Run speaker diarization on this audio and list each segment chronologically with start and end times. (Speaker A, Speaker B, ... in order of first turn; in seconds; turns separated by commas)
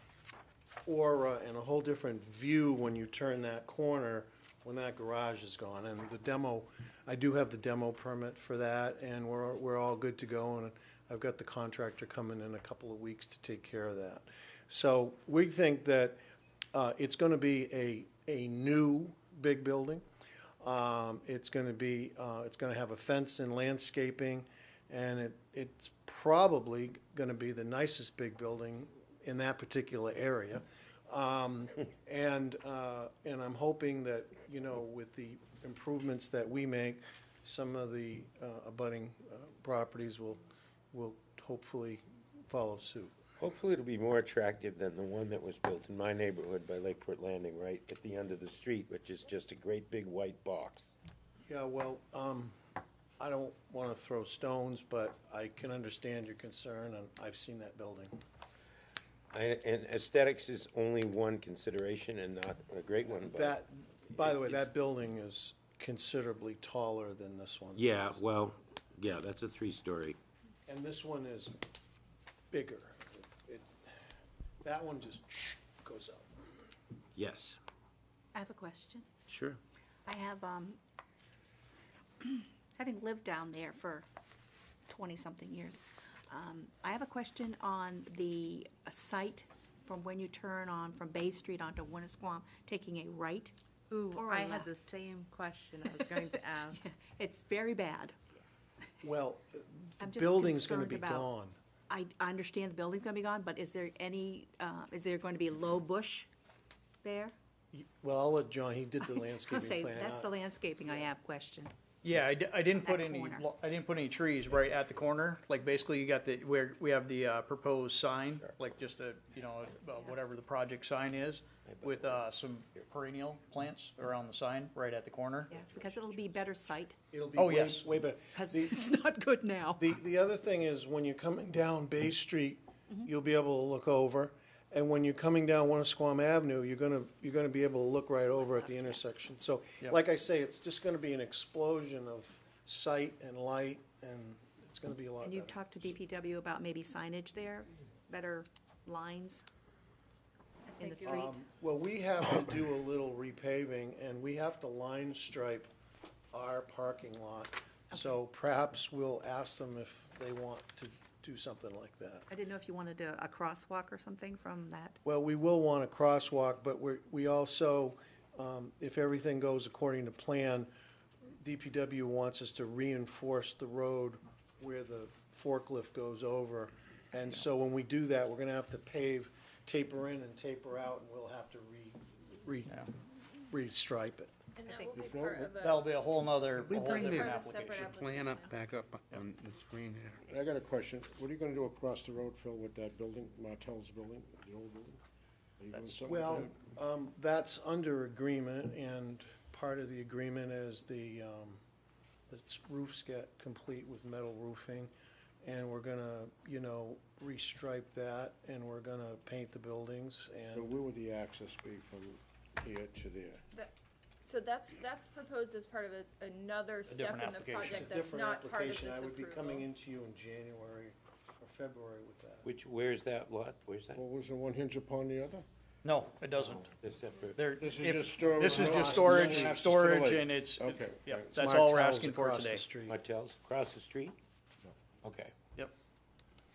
Speaker A: 0.9-16.2, Speaker A: 16.7-20.0, Speaker A: 20.6-43.2, Speaker B: 43.4-50.9, Speaker A: 51.5-52.5, Speaker A: 53.2-58.2, Speaker B: 59.3-63.6, Speaker A: 63.1-68.2, Speaker B: 64.2-64.7, Speaker B: 67.8-70.2, Speaker A: 70.7-71.6, Speaker A: 72.5-73.9, Speaker A: 74.6-76.3, Speaker B: 77.2-77.6, Speaker C: 78.3-79.1, Speaker B: 79.3-79.6, Speaker C: 80.1-80.8, Speaker C: 82.2-84.1, Speaker C: 84.9-93.6, Speaker D: 93.9-96.8, Speaker C: 94.1-94.8, Speaker C: 95.9-98.2, Speaker D: 98.4-98.7, Speaker A: 99.0-101.6, Speaker C: 100.0-101.3, Speaker C: 101.9-106.3, Speaker C: 107.0-107.3, Speaker A: 107.7-110.3, Speaker C: 109.0-111.7, Speaker E: 112.0-125.5, Speaker C: 112.7-113.5, Speaker B: 121.7-122.3, Speaker C: 125.5-127.0, Speaker A: 127.1-128.9, Speaker E: 127.4-127.9, Speaker C: 128.3-129.8, Speaker A: 129.8-145.6, Speaker C: 138.4-139.0, Speaker C: 145.2-149.4, Speaker F: 150.8-151.2, Speaker C: 150.8-151.4, Speaker A: 151.0-155.7, Speaker A: 156.3-162.3, Speaker C: 162.3-165.0, Speaker A: 165.1-170.7, Speaker A: 171.4-184.3, Speaker F: 184.6-186.1, Speaker C: 184.7-185.0, Speaker G: 184.9-185.7, Speaker E: 185.6-187.9, Speaker H: 186.6-190.1, Speaker F: 186.8-188.5, Speaker G: 190.3-195.0, Speaker G: 195.6-196.5, Speaker A: 195.9-201.6, Speaker A: 202.3-204.9, Speaker A: 205.4-210.7, Speaker G: 210.5-213.4, Speaker F: 214.2-219.7, Speaker E: 216.9-217.9, Speaker A: 217.6-222.5, Speaker B: 222.4-224.0, Speaker G: 223.9-225.4, Speaker E: 225.8-226.7, Speaker B: 226.6-227.5, Speaker E: 227.3-232.7, Speaker G: 227.6-231.4, Speaker A: 228.4-229.6, Speaker A: 231.3-233.0, Speaker B: 232.9-234.2, Speaker B: 235.0-235.3